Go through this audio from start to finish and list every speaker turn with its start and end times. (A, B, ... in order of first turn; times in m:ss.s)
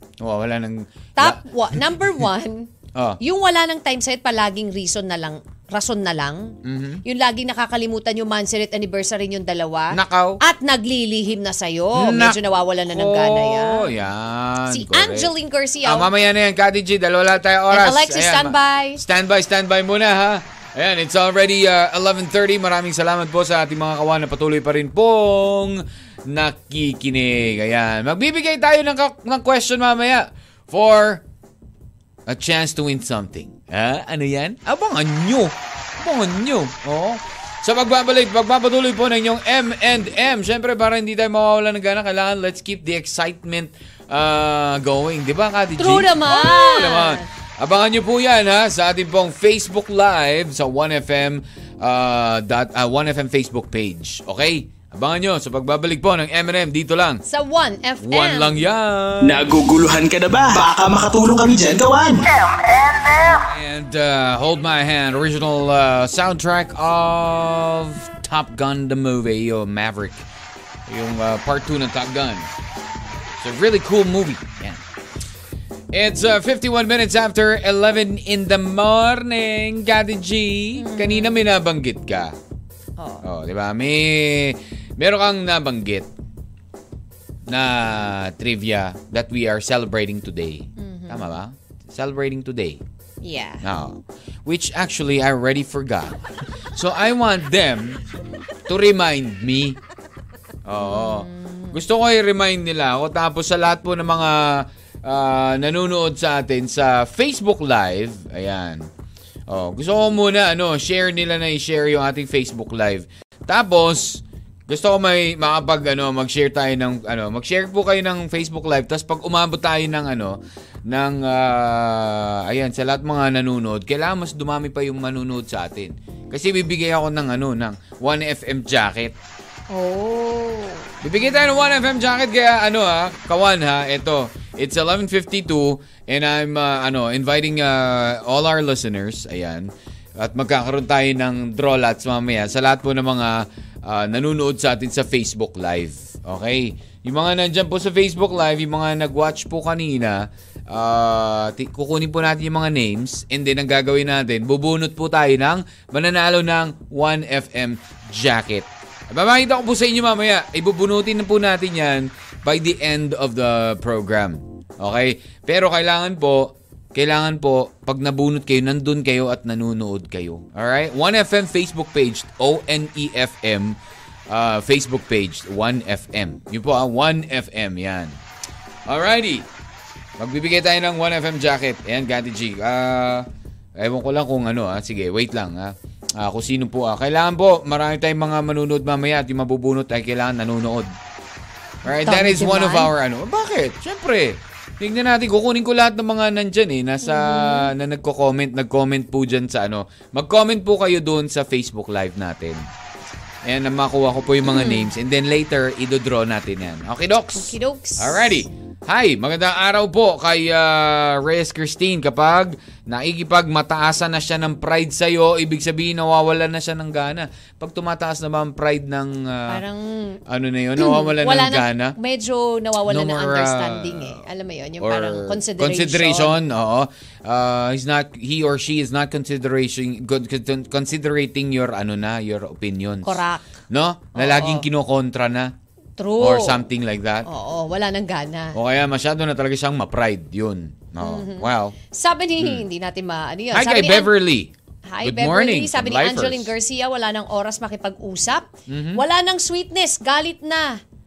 0:00.2-0:01.8 A
0:01.2-0:13.9 B
0:06.6-0:07.0 A
0:09.9-0:10.4 A
0:12.0-0:15.3 A
0:14.7-0:16.1 B
0:15.8-0:31.2 A
0:17.7-0:19.0 B
0:32.3-0:57.2 A
0:45.8-0:47.3 B
0:57.2-0:58.6 B
0:58.0-0:59.5 A
0:59.2-1:03.5 C
1:03.4-1:10.3 A
1:10.9-1:12.5 A
1:13.4-1:14.8 A
1:15.9-1:22.4 A
1:20.8-1:21.5 B
1:23.0-1:23.2 B
1:23.2-1:26.1 A
1:27.5-1:32.8 A
1:30.8-1:31.3 B
1:33.2-1:33.6 B
1:33.6-1:36.2 A
1:36.8-1:38.0 A
1:38.7-1:39.8 A
1:40.7-1:48.9 A
1:40.8-1:41.8 B
1:49.5-2:09.2 A
2:09.7-2:10.9 B
2:11.0-2:53.8 A
2:54.3-2:58.2 A
2:58.9-2:59.5 A
3:00.2-3:03.3 A
3:03.8-3:10.9 A
3:11.8-3:22.7 A
3:11.9-3:12.9 B
3:17.0-3:17.7 B
3:23.4-3:39.6 A
3:24.4-3:24.9 B
3:27.4-3:28.3 B
3:39.5-3:40.2 B
3:40.3-3:42.0 A
3:40.8-3:46.4 B
3:42.8-3:44.2 A
3:44.8-3:55.5 A
3:53.0-3:53.6 B
3:54.2-3:54.7 B
3:56.0-3:56.6 B
3:56.2-3:57.3 A
3:57.2-3:58.6 B
3:58.5-4:01.8 A
4:01.0-4:04.1 B
4:02.4-4:02.7 A
4:03.5-4:06.5 A
4:04.9-4:10.8 B
4:08.7-4:09.0 A